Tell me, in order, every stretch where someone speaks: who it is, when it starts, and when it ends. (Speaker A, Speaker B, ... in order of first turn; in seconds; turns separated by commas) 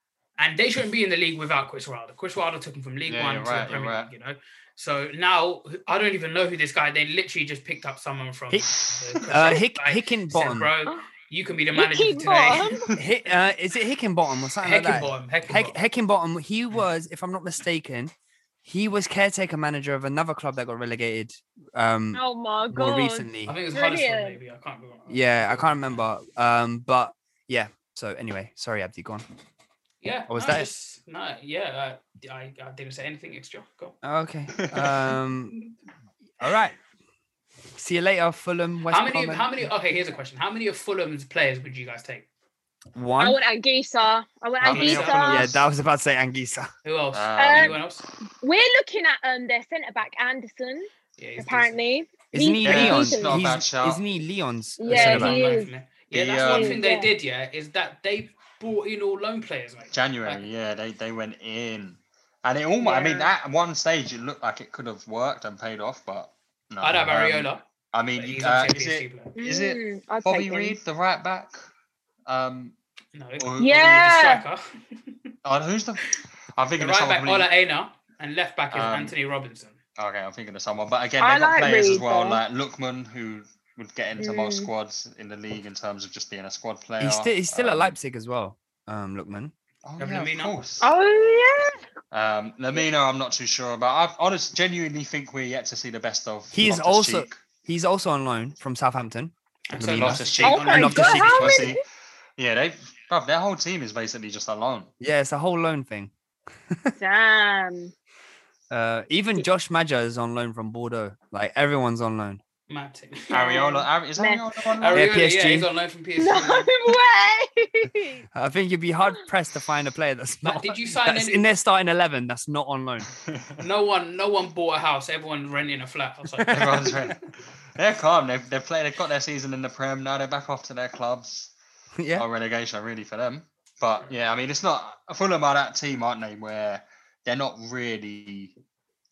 Speaker A: 0.4-12.6, Speaker B: 3.1-4.1, Speaker C: 9.2-10.7, Speaker D: 11.8-12.8, Speaker C: 13.0-18.1, Speaker A: 14.6-15.8, Speaker C: 18.6-23.5, Speaker D: 22.1-24.4, Speaker A: 23.4-26.0, Speaker C: 25.1-29.2, Speaker A: 30.0-34.0, Speaker C: 30.3-30.7, Speaker C: 34.0-35.5, Speaker C: 36.4-36.8, Speaker C: 37.8-39.6, Speaker A: 38.9-42.2, Speaker C: 42.9-43.4, Speaker D: 43.2-45.5, Speaker B: 44.6-45.6, Speaker A: 44.6-45.3, Speaker C: 45.2-46.7, Speaker A: 46.8-48.0, Speaker B: 47.1-47.8, Speaker D: 47.4-47.8, Speaker D: 48.4-53.5, Speaker A: 51.2-51.8, Speaker C: 52.3-55.4, Speaker B: 52.6-54.0, Speaker D: 54.8-55.7, Speaker A: 54.9-60.5, Speaker B: 55.0-55.4, Speaker B: 56.1-56.8, Speaker D: 56.4-57.1, Speaker B: 59.9-71.6, Speaker D: 62.8-63.3, Speaker A: 66.8-67.6, Speaker A: 68.2-69.3, Speaker D: 69.3-70.7, Speaker B: 72.3-72.7, Speaker A: 73.1-74.6, Speaker B: 73.4-74.1, Speaker D: 73.6-74.4, Speaker B: 75.4-77.5, Speaker A: 76.8-79.8, Speaker B: 78.7-79.1, Speaker B: 80.0-88.0, Speaker D: 81.2-82.4, Speaker D: 84.2-84.7, Speaker C: 87.0-89.5, Speaker B: 89.8-90.9, Speaker A: 90.0-90.5, Speaker D: 90.8-91.8, Speaker B: 92.1-97.4, Speaker C: 96.5-101.7, Speaker A: 99.7-101.6, Speaker B: 99.8-101.8, Speaker D: 100.4-101.8, Speaker B: 102.4-104.9, Speaker C: 105.0-106.1, Speaker D: 107.0-107.9, Speaker C: 108.7-112.4, Speaker A: 112.7-113.8, Speaker B: 113.3-115.0, Speaker D: 114.2-114.4, Speaker A: 114.8-116.7, Speaker C: 114.9-115.7, Speaker D: 116.2-118.2, Speaker C: 118.3-123.1, Speaker A: 120.4-121.4, Speaker A: 123.6-126.6, Speaker C: 126.4-126.8, Speaker B: 126.5-127.2, Speaker B: 127.8-131.5, Speaker C: 132.0-132.2, Speaker B: 132.2-138.5